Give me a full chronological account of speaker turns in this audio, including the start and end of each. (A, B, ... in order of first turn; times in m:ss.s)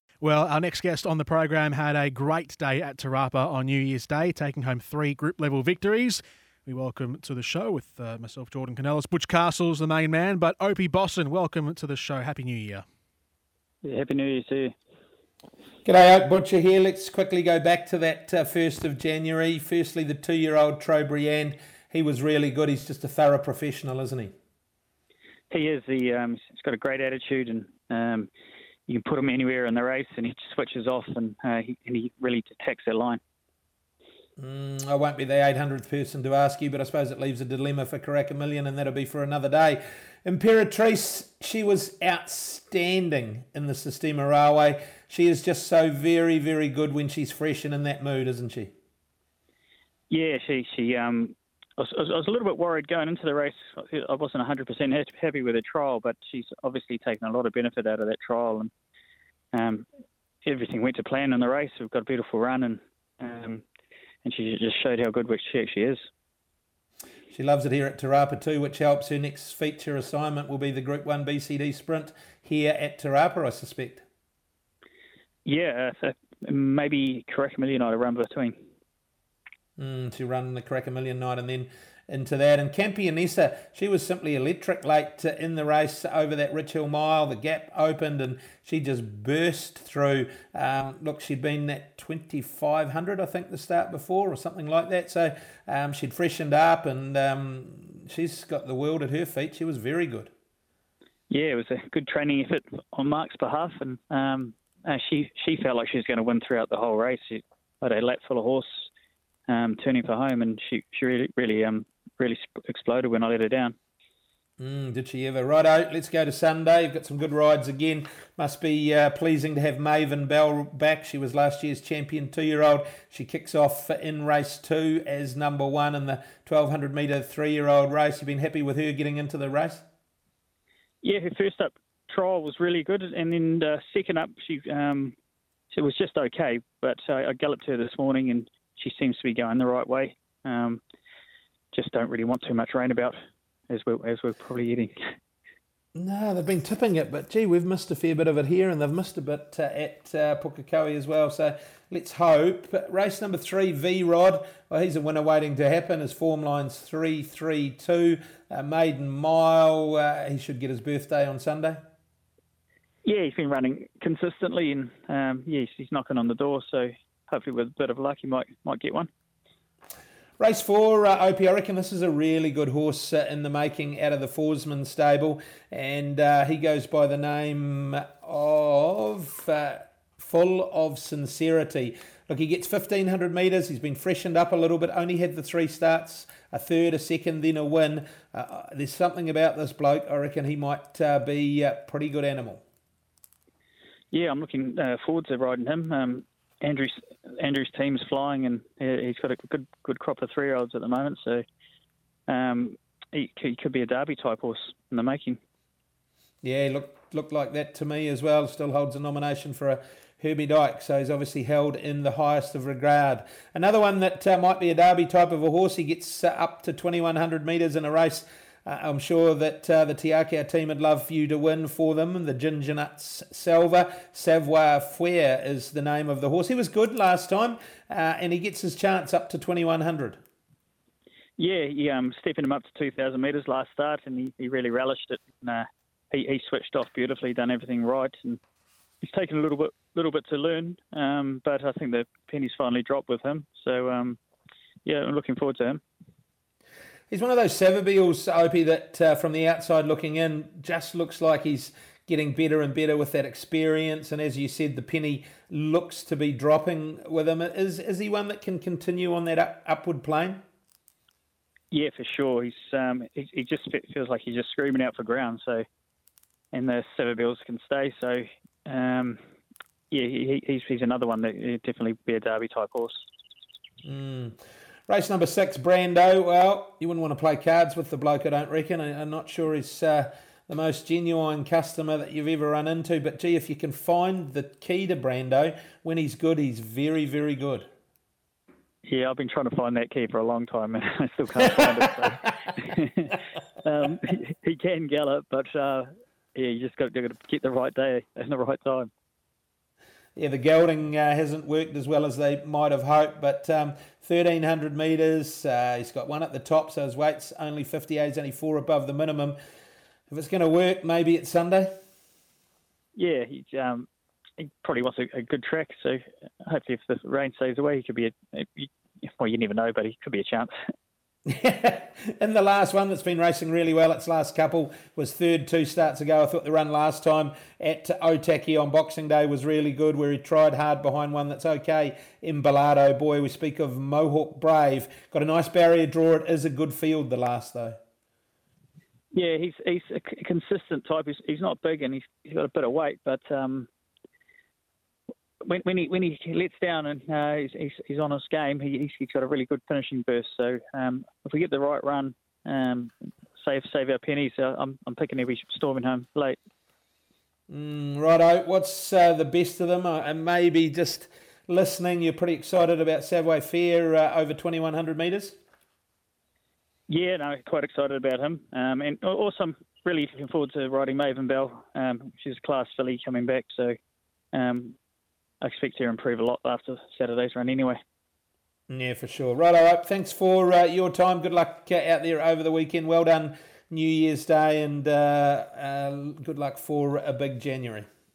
0:00.2-0:12.8 A
0:13.8-0:14.7 B
0:15.8-0:24.3 C
0:25.5-0:28.3 B
0:28.9-0:33.2 B
0:34.4-0:48.7 C
0:50.1-0:58.7 B
0:59.5-0:59.9 B
1:00.4-1:03.6 B
1:04.2-1:06.0 B
1:07.3-1:14.0 C
1:15.4-1:18.6 B
1:19.8-1:40.3 C
1:41.3-1:48.9 B
1:49.5-1:53.8 B
1:54.6-2:09.8 C
2:11.0-2:15.2 B
2:15.7-2:20.8 B
2:21.7-2:23.2 B
2:23.7-2:24.9 B
2:26.0-2:41.8 C
2:43.0-2:49.1 B
2:50.4-3:12.6 C
3:14.1-3:21.4 B
3:22.3-3:25.4 B
3:26.4-3:50.2 C
3:51.4-3:58.4 B
3:59.0-4:04.2 B
4:04.8-4:05.8 B
4:07.1-4:20.4 C
4:21.7-4:25.6 B
4:26.5-4:29.2 B
4:29.9-4:33.0 B
4:33.8-4:47.7 C
4:48.8-4:58.9 B
5:00.2-5:09.4 C
5:10.1-5:11.7 C
5:13.0-5:13.9 B
5:14.4-5:20.5 B
5:21.3-5:37.8 C
5:39.1-5:43.7 B
5:45.4-5:56.4 B
5:57.5-6:05.4 C
6:06.9-6:13.8 B
6:14.3-6:14.8 B
6:15.4-6:17.8 B
6:18.7-6:27.9 C